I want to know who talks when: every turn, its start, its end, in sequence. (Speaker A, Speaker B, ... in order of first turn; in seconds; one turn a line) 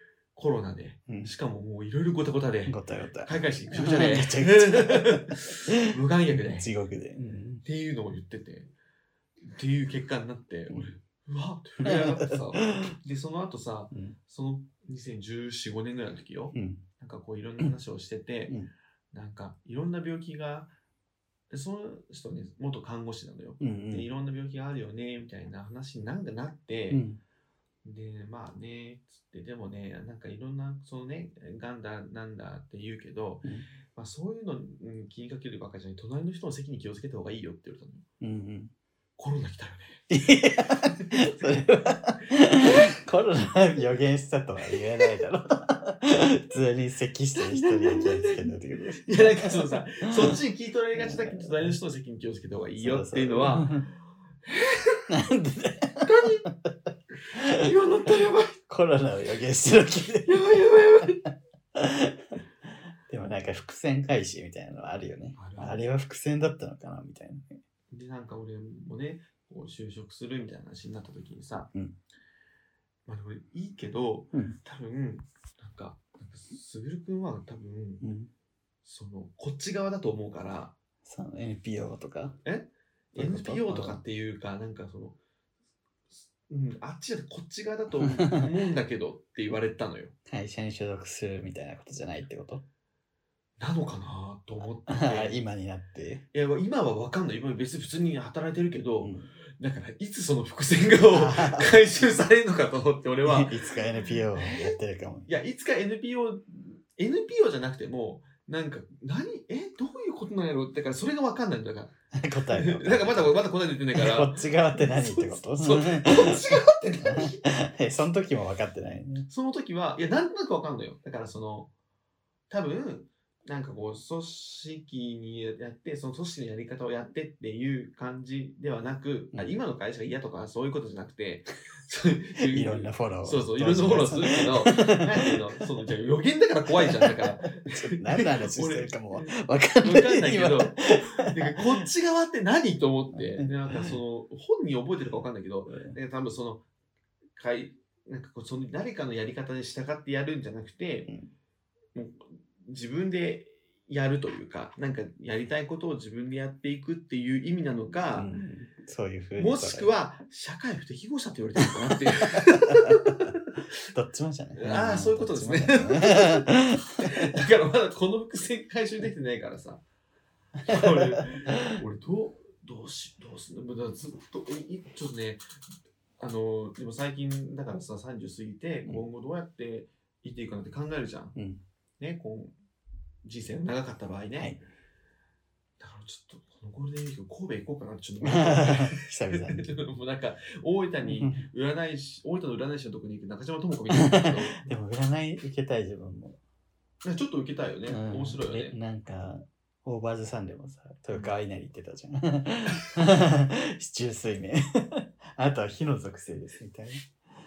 Speaker A: 0.3-8.7
Speaker B: 1.1-1.3
Speaker B: 2.7-5.7
Speaker B: 6.3-7.6
Speaker A: 9.4-18.6
Speaker B: 11.8-12.9
Speaker B: 16.5-16.8
Speaker A: 19.1-20.7
Speaker A: 21.5-27.0
Speaker B: 23.6-24.1
Speaker B: 26.9-27.2
Speaker A: 27.8-38.1
Speaker B: 38.2-38.7
Speaker A: 39.2-40.0
Speaker B: 40.1-50.4
Speaker A: 41.0-41.6
Speaker A: 42.5-43.0
Speaker A: 47.4-53.9
Speaker B: 51.0-51.8
Speaker B: 52.8-53.9
Speaker A: 54.5-55.1
Speaker B: 55.1-56.8
Speaker A: 56.0-56.5
Speaker A: 57.3-58.6
Speaker B: 57.4-61.1
Speaker A: 60.2-61.2
Speaker B: 61.8-62.4
Speaker B: 63.1-67.6
Speaker A: 65.3-65.8
Speaker A: 67.9-71.7
Speaker A: 73.1-78.1
Speaker B: 78.0-78.3
Speaker A: 78.8-80.8
Speaker B: 81.0-82.4
Speaker A: 82.5-85.2
Speaker B: 83.2-84.0
Speaker A: 86.2-90.2
Speaker B: 88.0-88.5
Speaker B: 90.3-92.6
Speaker A: 93.6-95.4
Speaker B: 94.9-96.2
Speaker A: 96.3-103.7
Speaker B: 99.0-99.3
Speaker B: 101.1-101.7
Speaker B: 103.2-105.3
Speaker A: 104.3-112.0
Speaker B: 112.1-119.3
Speaker A: 112.5-117.5
Speaker A: 119.3-121.7
Speaker A: 122.5-146.7
Speaker B: 132.4-135.4
Speaker B: 136.9-141.6
Speaker B: 143.3-144.0
Speaker B: 145.7-146.0
Speaker A: 147.4-151.1
Speaker A: 151.9-158.3
Speaker B: 158.1-159.9
Speaker A: 159.4-163.5
Speaker B: 161.9-163.3
Speaker B: 163.9-167.2
Speaker A: 164.6-169.8
Speaker A: 170.6-175.4
Speaker B: 170.7-171.7
Speaker A: 176.2-181.4
Speaker B: 181.4-181.6
Speaker A: 182.0-182.5
Speaker A: 183.2-184.6
Speaker A: 185.8-194.7
Speaker B: 188.2-189.7
Speaker B: 191.0-191.4
Speaker B: 193.9-196.4
Speaker A: 197.0-198.8
Speaker B: 197.9-207.1